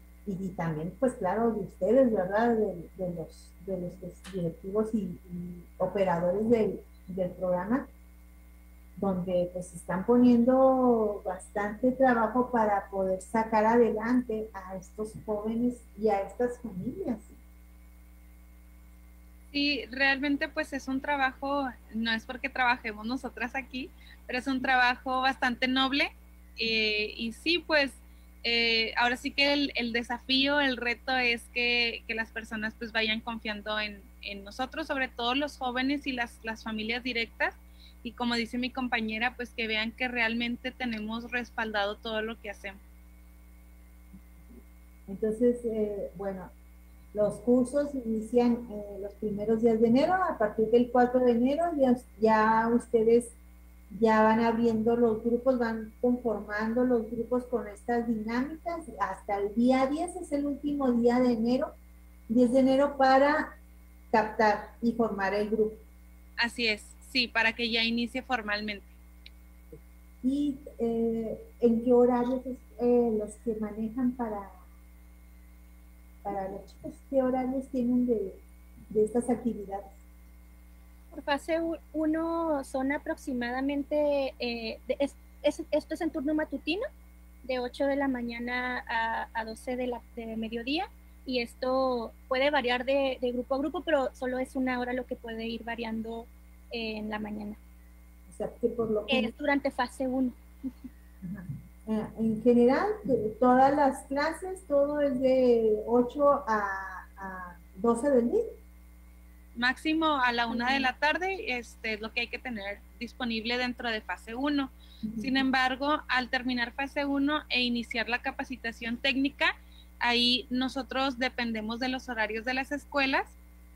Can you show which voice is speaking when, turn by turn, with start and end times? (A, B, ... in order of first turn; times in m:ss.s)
0:00.3-0:07.9 A
0:09.0-0:17.3 A
0:19.5-0:42.8 B
0:45.1-0:46.5 A
0:47.1-0:53.4 A
0:53.9-1:01.7 A
1:02.3-1:03.6 A
1:04.1-1:05.8 A
1:06.4-1:08.9 B
1:10.2-1:14.6 A
1:16.2-1:19.9 A
1:21.1-1:26.8 C
1:27.4-1:37.6 C
1:38.3-1:39.3 A
1:39.1-1:40.7 C
1:41.2-1:48.5 A
1:49.6-2:03.4 B
1:55.0-1:55.3 A